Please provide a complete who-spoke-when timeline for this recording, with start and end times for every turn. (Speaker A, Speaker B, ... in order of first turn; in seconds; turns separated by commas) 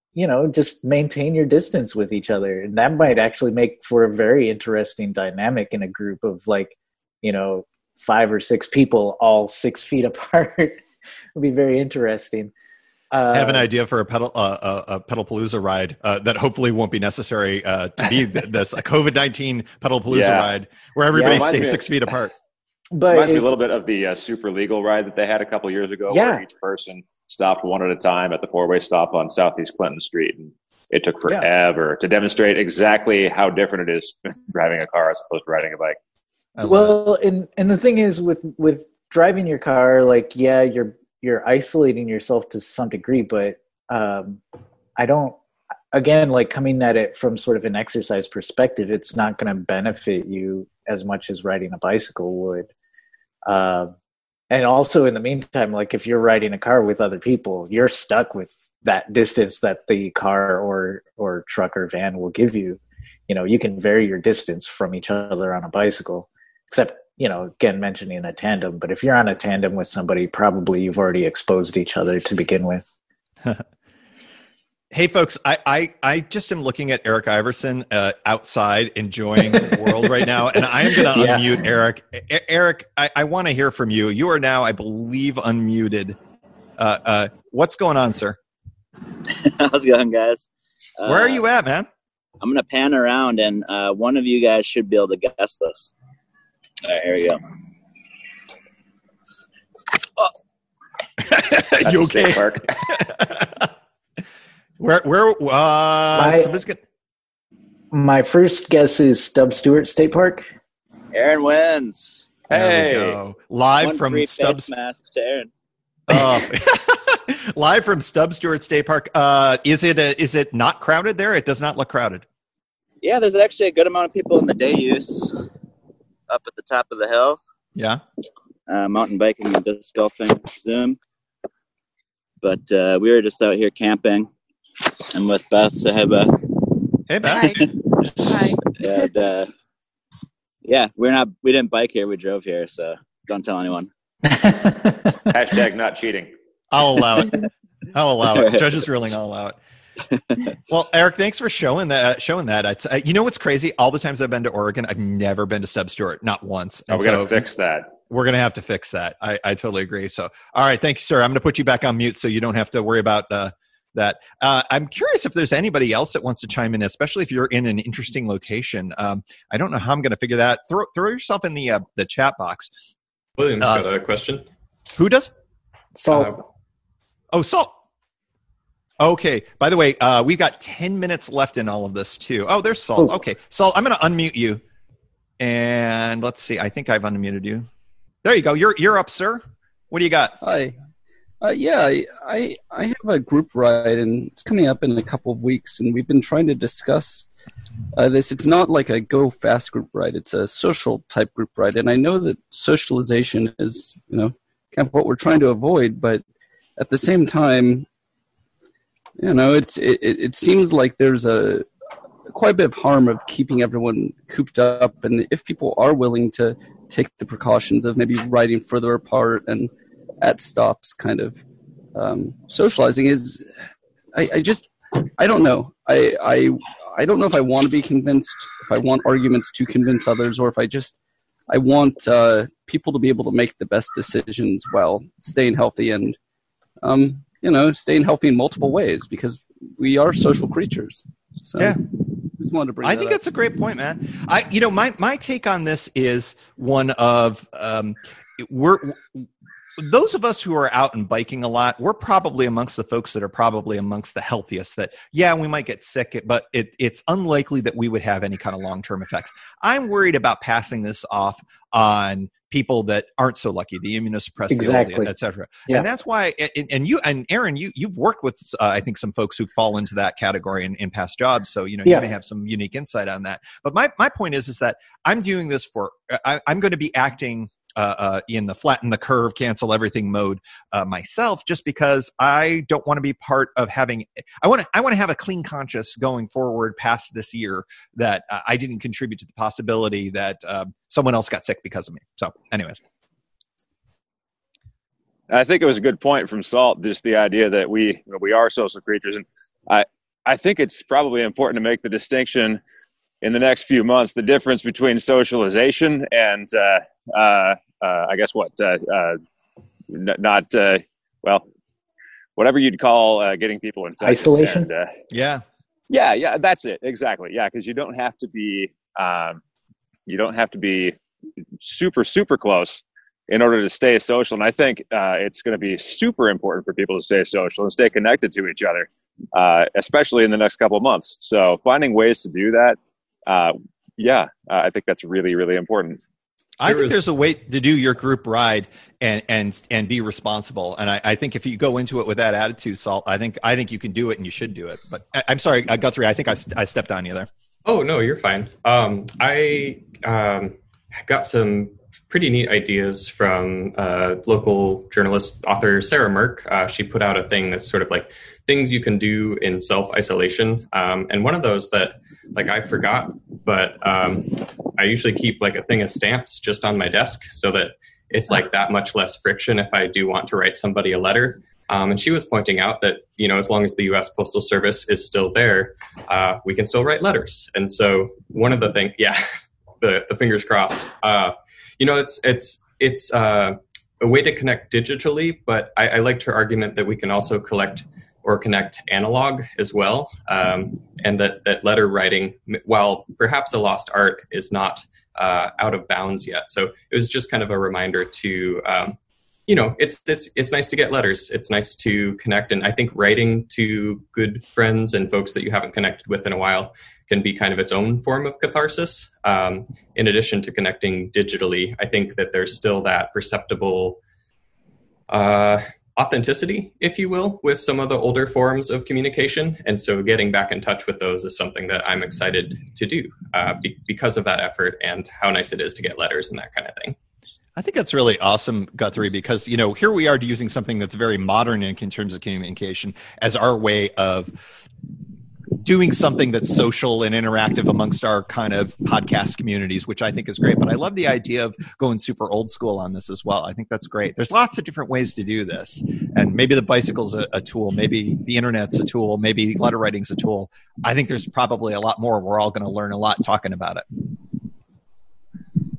Speaker A: 0.1-10.8, Speaker A: 11.3-12.5, Speaker A: 13.1-13.7, Speaker B: 13.3-22.3, Speaker C: 20.1-20.5, Speaker C: 21.1-21.9, Speaker A: 22.9-23.6, Speaker C: 23.1-36.0, Speaker A: 26.1-26.4, Speaker B: 36.6-37.0, Speaker A: 36.6-44.4, Speaker A: 45.0-45.4, Speaker A: 45.9-52.7, Speaker A: 53.5-53.9, Speaker A: 54.5-72.8, Speaker B: 74.9-86.2, Speaker A: 80.6-81.7, Speaker B: 86.8-88.4, Speaker D: 89.4-91.4, Speaker B: 91.0-91.9, Speaker D: 92.4-95.9, Speaker D: 96.8-97.4, Speaker B: 101.2-103.7, Speaker C: 101.8-102.8, Speaker B: 104.8-106.8, Speaker A: 106.2-106.5, Speaker A: 107.9-110.5, Speaker D: 111.1-112.3, Speaker C: 112.5-113.2, Speaker B: 112.5-114.7, Speaker D: 113.8-115.5, Speaker B: 116.1-122.2, Speaker D: 123.0-125.4, Speaker D: 126.3-127.4, Speaker B: 127.8-128.0, Speaker D: 128.7-131.0, Speaker D: 132.4-134.3, Speaker D: 135.1-136.4, Speaker B: 137.1-137.7, Speaker D: 137.3-139.5, Speaker D: 140.7-143.9, Speaker A: 144.4-145.1, Speaker C: 145.3-146.3, Speaker B: 146.7-149.6, Speaker D: 148.3-148.8, Speaker B: 150.7-157.4, Speaker C: 156.9-157.9, Speaker B: 158.1-172.7, Speaker E: 173.4-174.4, Speaker B: 173.6-173.9, Speaker B: 174.9-175.3, Speaker A: 175.9-176.4, Speaker E: 176.1-176.4, Speaker B: 177.3-177.7, Speaker B: 179.0-184.6, Speaker B: 185.4-187.7, Speaker B: 188.2-190.4, Speaker F: 190.4-190.8, Speaker F: 191.4-197.3, Speaker F: 197.9-206.2, Speaker F: 206.8-207.9, Speaker F: 209.2-211.7, Speaker F: 212.3-221.4, Speaker F: 221.9-223.5, Speaker F: 224.1-230.9, Speaker F: 231.5-236.2, Speaker F: 236.8-241.8, Speaker F: 242.4-243.2, Speaker B: 242.8-292.8, Speaker A: 264.5-265.1, Speaker C: 295.3-302.6, Speaker C: 303.2-309.2, Speaker C: 309.9-311.4, Speaker C: 312.4-314.9, Speaker A: 314.0-314.7, Speaker B: 315.1-315.4, Speaker C: 315.9-319.4, Speaker C: 320.1-321.0, Speaker C: 321.6-336.0, Speaker B: 336.6-347.3, Speaker E: 336.6-337.0, Speaker E: 347.6-379.3, Speaker E: 379.8-414.0, Speaker E: 415.1-426.9, Speaker B: 427.6-434.3, Speaker B: 435.6-453.8